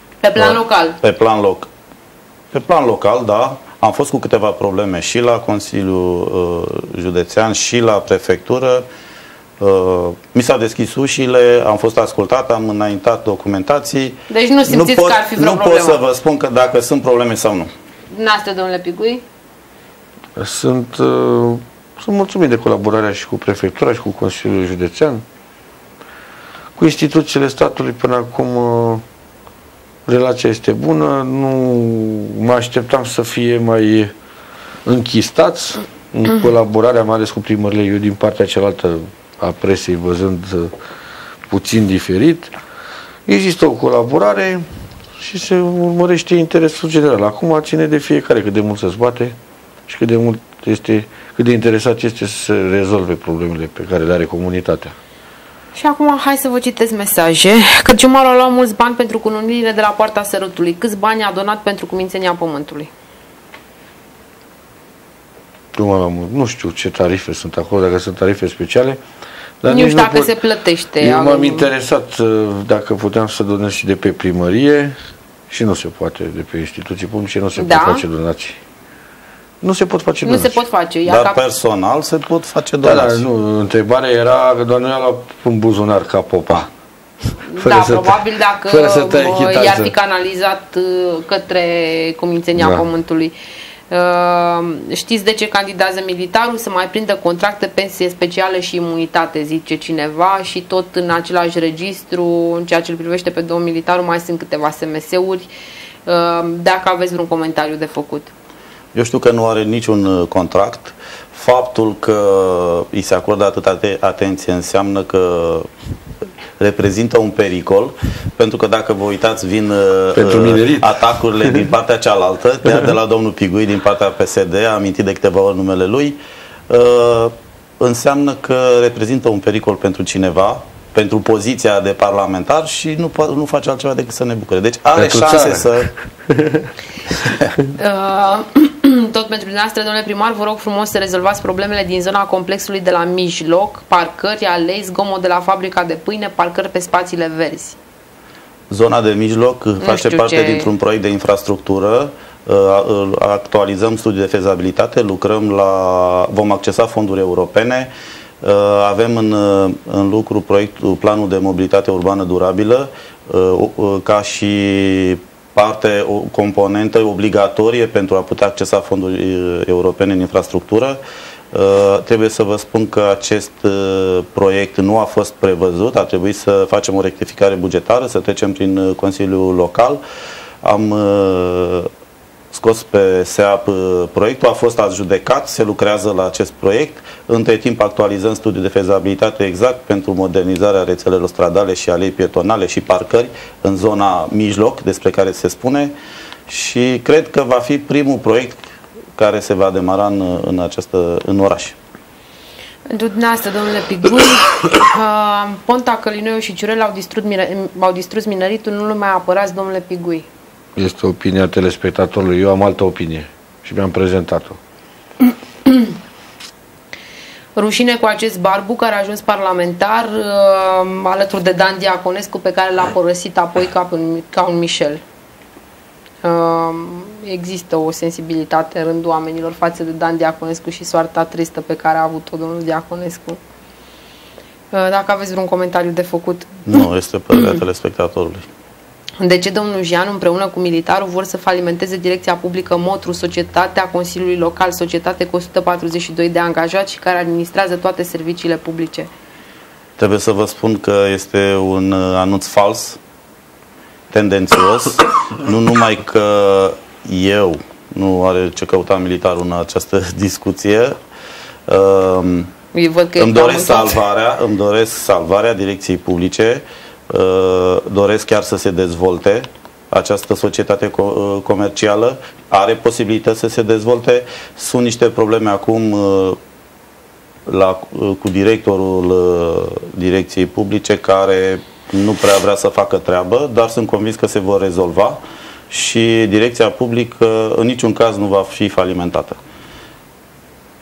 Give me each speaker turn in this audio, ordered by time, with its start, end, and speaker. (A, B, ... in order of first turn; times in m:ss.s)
0:00.2-0:01.0 A
0:00.4-0:01.7 B
0:02.5-0:08.8 B
0:09.6-0:17.7 B
0:14.3-0:16.0 A
0:18.1-0:19.2 A
0:20.4-0:25.2 C
0:26.8-0:29.0 C
0:30.0-0:34.1 C
0:34.8-0:40.7 C
0:41.5-0:42.5 C
0:43.2-0:44.6 C
0:45.2-0:49.3 C
0:49.9-0:54.9 C
0:55.7-1:02.9 A
1:05.7-1:09.0 C
1:09.6-1:10.3 C
1:09.6-1:11.7 A
1:11.0-1:15.0 C
1:15.5-1:18.6 C
1:17.6-1:18.0 A
1:19.6-1:20.6 C
1:20.2-1:21.4 A
1:21.0-1:23.2 B
1:22.8-1:26.7 C
1:27.5-1:33.3 A
1:27.6-1:29.9 C
1:32.6-1:32.9 C
1:33.9-1:45.5 A
1:46.1-1:48.3 A
1:48.9-1:55.7 B
1:56.6-2:15.9 B
2:00.1-2:01.7 C
2:14.9-2:16.7 C
2:17.7-2:27.8 A
2:28.7-2:51.0 B
2:29.8-2:30.7 A
2:51.5-3:00.0 B
3:00.6-3:01.9 B
3:02.5-3:15.9 B
3:16.5-3:18.6 B
3:19.2-3:21.8 B
3:22.9-3:30.2 A
3:30.8-3:34.6 C
3:37.6-3:45.0 A
3:46.2-3:53.4 A
3:54.7-3:57.6 A
3:56.7-3:58.4 B
3:59.2-4:09.1 A
4:10.0-4:13.0 B
4:14.1-4:21.0 B
4:21.7-4:22.5 B
4:22.7-4:24.0 A
4:23.2-4:36.4 B
4:37.5-4:49.4 B